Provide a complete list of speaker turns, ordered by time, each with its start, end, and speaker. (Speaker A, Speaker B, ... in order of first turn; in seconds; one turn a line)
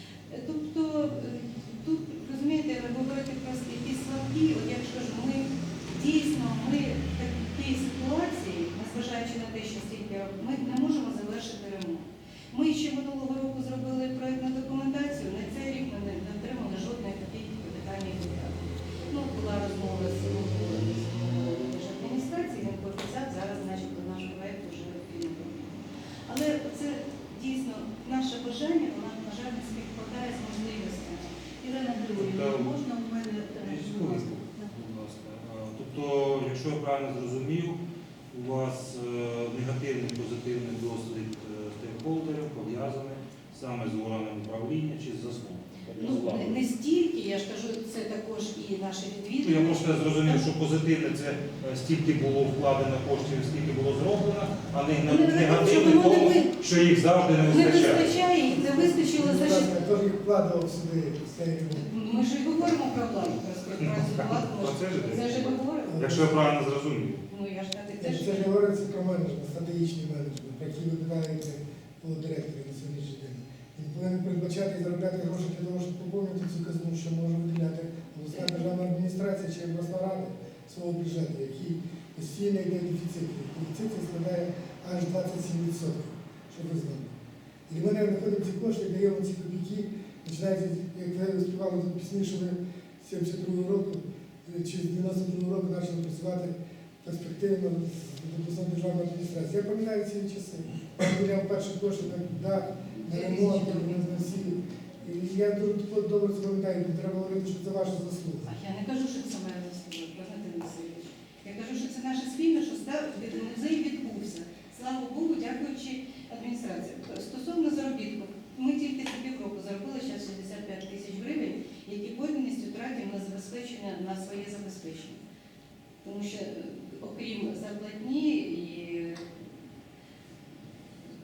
Speaker A: 0.3-31.3
Speaker B: 31.6-34.7
Speaker C: 32.1-32.7
Speaker C: 33.5-37.8
Speaker C: 38.3-46.6
Speaker A: 46.0-50.4
Speaker C: 49.4-58.2
Speaker A: 55.0-56.5
Speaker A: 57.5-59.7
Speaker D: 58.5-61.9
Speaker A: 61.8-66.0
Speaker C: 63.8-67.2
Speaker D: 65.9-66.5
Speaker A: 67.3-68.5
Speaker D: 68.0-87.1
Speaker D: 87.7-108.5
Speaker A: 103.0-104.0
Speaker A: 108.5-125.2
Speaker A: 126.0-129.3